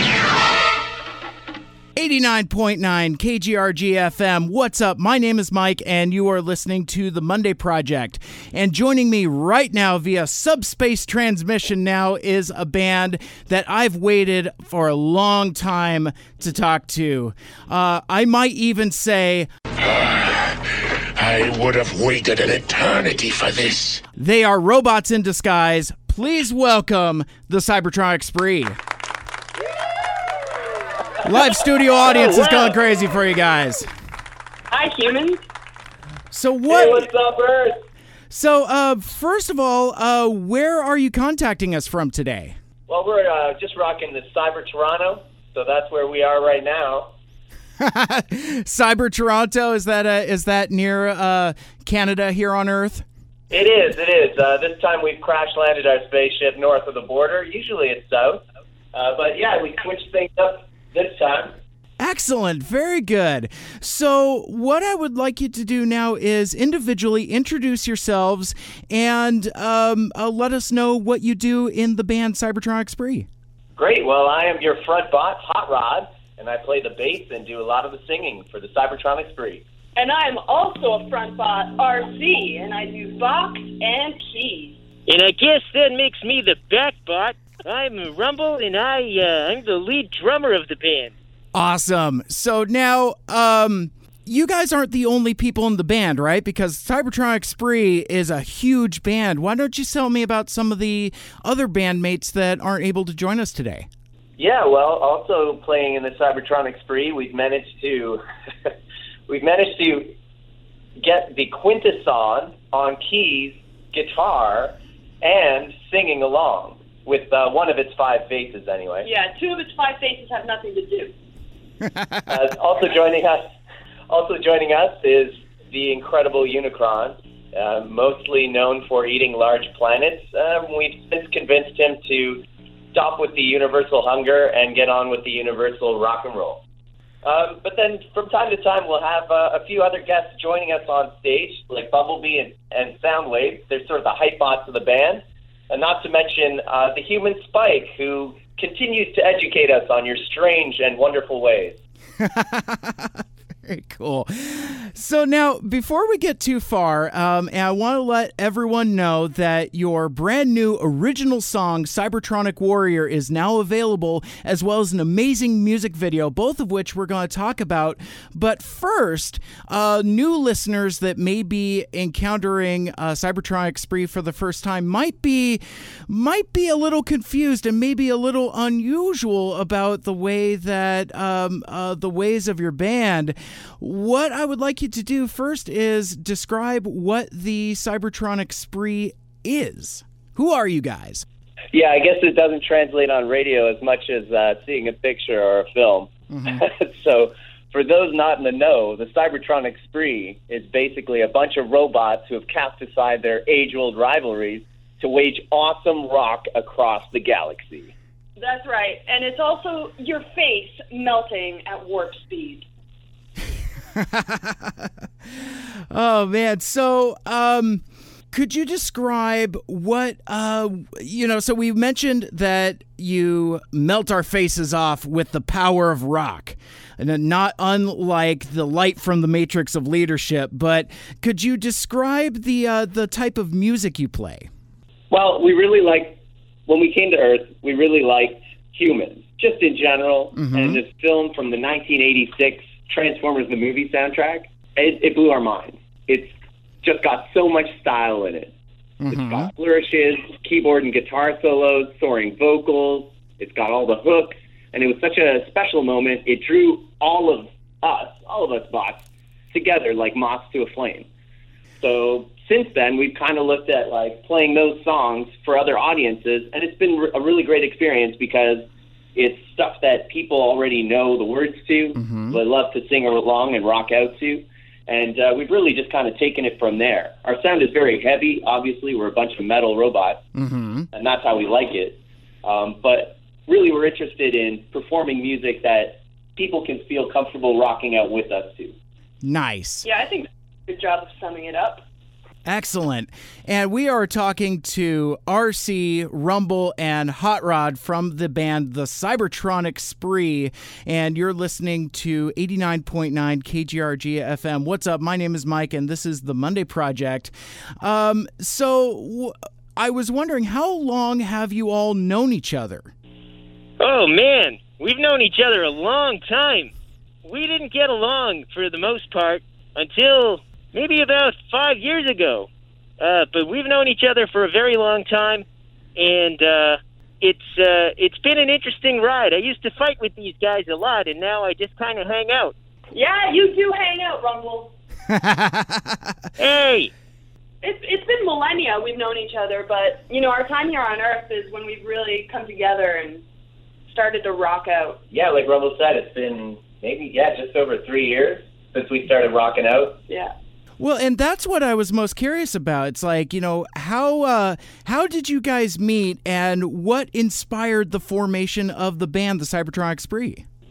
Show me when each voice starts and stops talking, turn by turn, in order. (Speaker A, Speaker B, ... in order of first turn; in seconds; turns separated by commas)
Speaker A: 1.9-19.5, Speaker B: 19.8-20.6, Speaker B: 21.1-24.0, Speaker A: 24.1-28.8, Speaker A: 31.2-33.9, Speaker C: 32.1-32.7, Speaker D: 34.7-35.4, Speaker A: 36.3-37.1, Speaker E: 36.7-37.8, Speaker A: 38.3-42.5, Speaker E: 42.9-47.1, Speaker A: 47.8-53.0, Speaker E: 53.5-58.4, Speaker E: 58.9-61.5, Speaker A: 62.0-73.3, Speaker E: 73.8-79.6, Speaker D: 80.0-84.8, Speaker C: 85.0-91.1, Speaker A: 91.5-103.9, Speaker E: 104.4-108.7, Speaker E: 109.3-110.1, Speaker E: 111.0-119.1, Speaker D: 119.0-121.1, Speaker A: 121.8-122.2, Speaker E: 122.3-123.5, Speaker E: 124.1-136.6, Speaker E: 137.2-151.8, Speaker A: 152.2-191.2, Speaker E: 191.7-207.9, Speaker A: 196.3-196.6, Speaker D: 208.4-212.7, Speaker A: 213.9-234.5, Speaker E: 235.1-248.5, Speaker A: 240.3-240.8, Speaker A: 249.0-249.5, Speaker E: 249.1-261.1, Speaker E: 261.8-280.2, Speaker A: 271.9-272.4, Speaker A: 280.4-280.9, Speaker E: 280.9-288.7, Speaker A: 289.2-289.9, Speaker D: 289.8-291.8, Speaker A: 292.4-312.9, Speaker C: 313.8-316.7, Speaker C: 317.2-322.5, Speaker C: 323.0-325.4, Speaker C: 325.9-332.5, Speaker D: 332.9-334.7, Speaker A: 335.1-336.1, Speaker C: 336.4-336.9, Speaker D: 337.6-343.2, Speaker D: 343.9-345.0, Speaker E: 345.1-350.0, Speaker A: 350.8-360.4